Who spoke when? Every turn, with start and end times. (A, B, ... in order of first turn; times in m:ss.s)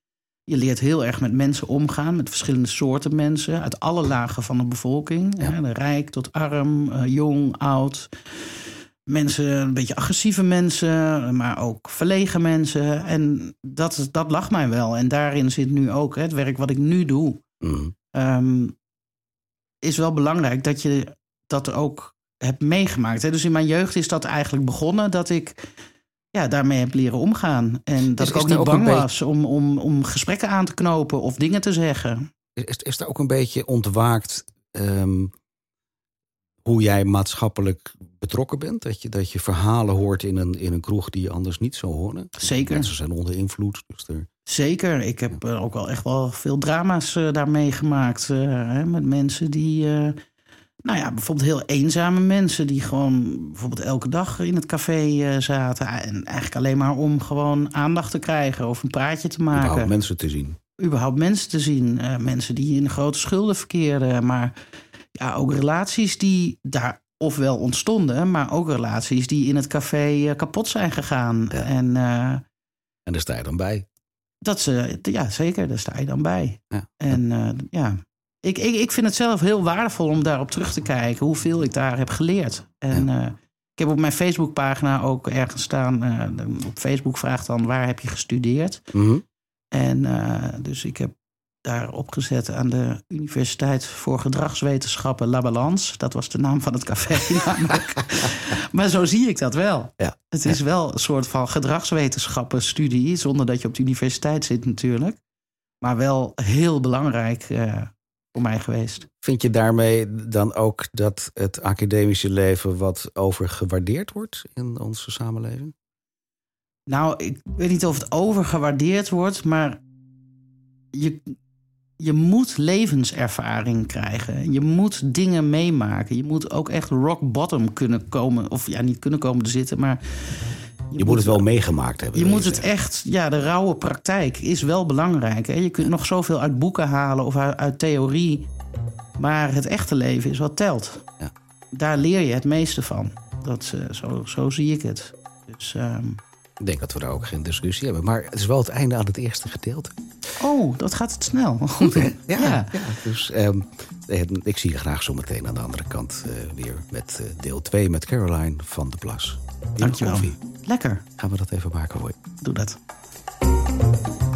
0:00.5-0:17.4 A
0:17.6-0:17.9 B
0:18.1-0:18.8 A
0:19.8-0:25.7 A
0:26.3-0:32.3 A
0:28.2-0:29.1 B
0:32.6-0:35.3 B
0:36.6-0:44.3 B
0:42.4-0:42.9 A
0:44.5-0:50.2 A
0:50.8-1:00.0 A
0:59.5-1:00.6 B
1:00.8-1:04.6 A
1:05.2-1:12.4 A
1:13.1-1:13.8 B
1:14.4-1:28.9 A
1:16.7-1:17.2 B
1:28.9-1:29.2 B
1:29.7-1:31.1 A
1:31.6-1:45.2 A
1:40.0-1:40.6 B
1:45.8-1:49.1 A
1:49.2-1:55.7 B
1:56.9-1:59.8 A
2:00.9-2:01.3 A
2:02.0-2:11.4 A
2:11.0-2:12.7 B
2:12.1-2:18.5 A
2:19.2-2:21.1 A
2:21.7-2:26.2 A
2:26.6-2:29.9 B
2:30.4-2:32.8 A
2:31.8-2:40.4 B
2:39.8-2:41.0 A
2:41.2-2:42.2 B
2:42.4-2:42.8 A